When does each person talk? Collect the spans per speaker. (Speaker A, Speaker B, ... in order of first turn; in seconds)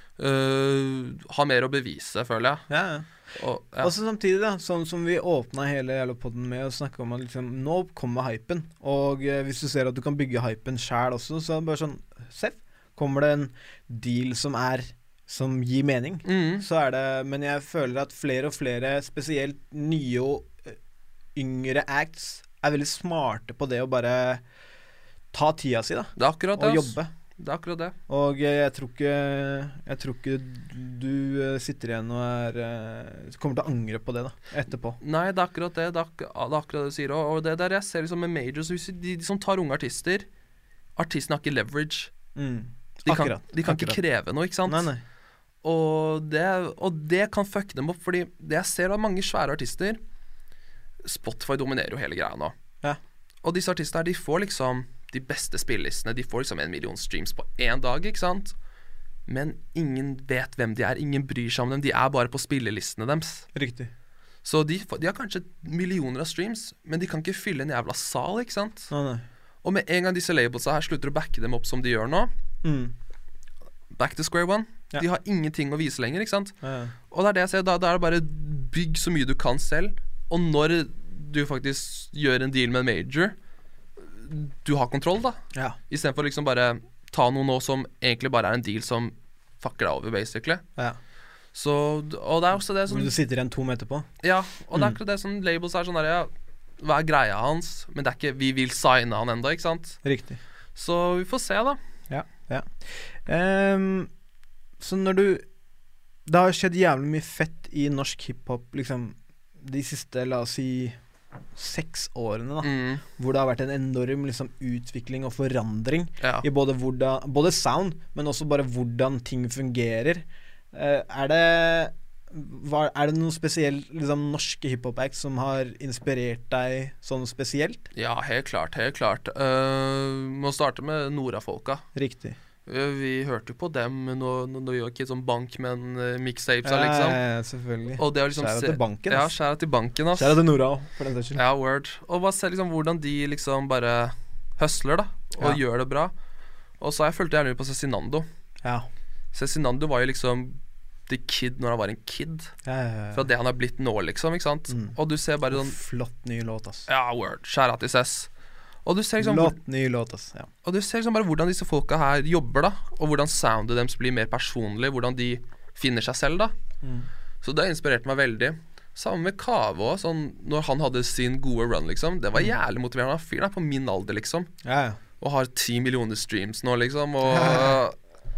Speaker A: 0.2-2.6, 3.4-3.9, 16.2-16.6, 26.2-27.9, 35.0-40.3, 41.0-42.1, 43.0-44.9, 45.6-50.0, 51.0-52.5, 53.4-58.5, 59.3-63.5, 64.4-68.9, 69.6-72.3, 73.9-76.5, 77.1-83.3, 84.0-90.6, 91.5-93.1, 94.2-100.0, 100.8-101.8, 112.6-113.0, 127.9-131.8, 132.7-137.2, 138.0-140.4, 141.4-146.1, 146.8-148.3, 149.3-152.5, 153.1-155.8, 156.9-158.3, 158.8-159.6, 160.6-166.5, 167.4-174.5, 175.2-178.0
Speaker B: 2.7-3.1, 3.8-20.8, 21.4-24.4, 25.3-27.1, 28.1-35.0, 42.4-44.0, 44.7-45.0, 63.5-63.9, 68.9-69.2, 72.6-72.9, 76.6-77.0, 92.9-94.1, 100.0-100.4, 102.1-104.1, 104.8-105.4, 106.3-111.0, 111.6-127.9, 131.9-132.4, 136.6-139.3, 140.2-141.4, 152.7-153.3, 154.7-154.9, 155.5-156.9, 159.2-160.5, 166.8-167.1, 174.6-175.0, 177.3-177.8